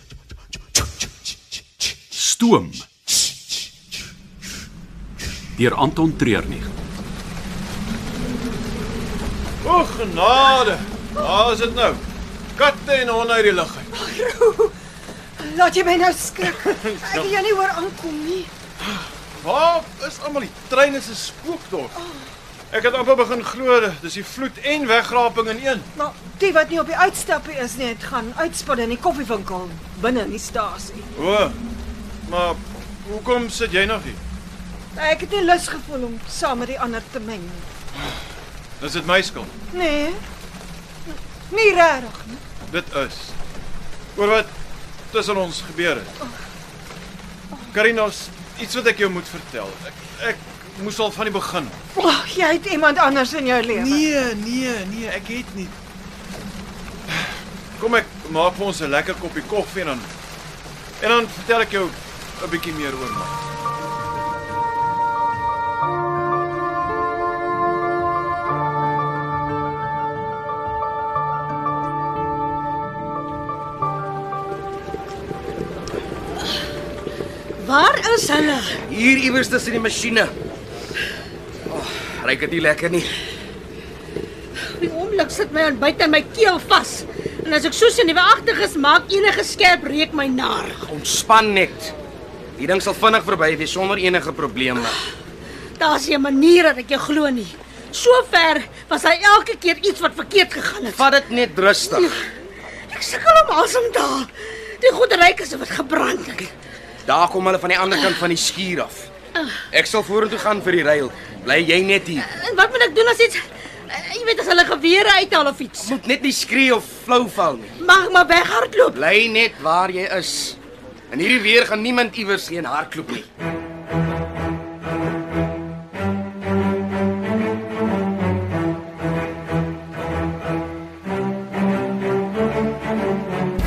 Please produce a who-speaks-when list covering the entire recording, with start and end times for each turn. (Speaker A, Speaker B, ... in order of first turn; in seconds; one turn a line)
Speaker A: 2.1-2.9
Speaker A: 5.6-6.7
Speaker B: 9.6-12.0
Speaker B: 12.6-13.9
Speaker C: 13.9-14.7
Speaker C: 15.4-18.5
Speaker B: 16.6-17.3
Speaker B: 18.9-22.0
Speaker C: 22.0-22.3
Speaker B: 22.7-25.9
Speaker C: 25.9-31.1
Speaker B: 31.1-31.6
Speaker B: 32.3-34.2
Speaker C: 35.0-37.7
Speaker B: 38.8-39.5
Speaker C: 39.7-40.2
Speaker C: 41.1-42.4
Speaker B: 42.7-43.4
Speaker B: 44.1-44.5
Speaker B: 45.1-46.1
Speaker B: 47.7-51.8
Speaker C: 52.0-54.1
Speaker B: 53.7-55.8
Speaker B: 57.1-60.1
Speaker B: 61.0-63.4
Speaker D: 77.6-78.8
Speaker E: 78.9-80.3
Speaker E: 81.7-83.2
Speaker D: 84.6-90.8
Speaker E: 90.8-91.9
Speaker E: 92.6-95.0
Speaker D: 95.8-101.1
Speaker E: 100.9-102.2
Speaker D: 101.9-102.3
Speaker D: 102.9-106.5
Speaker E: 107.0-109.1
Speaker E: 109.7-112.3
Speaker D: 112.2-116.0
Speaker E: 115.8-117.8
Speaker D: 117.8-119.0
Speaker E: 118.9-120.6
Speaker E: 121.1-123.3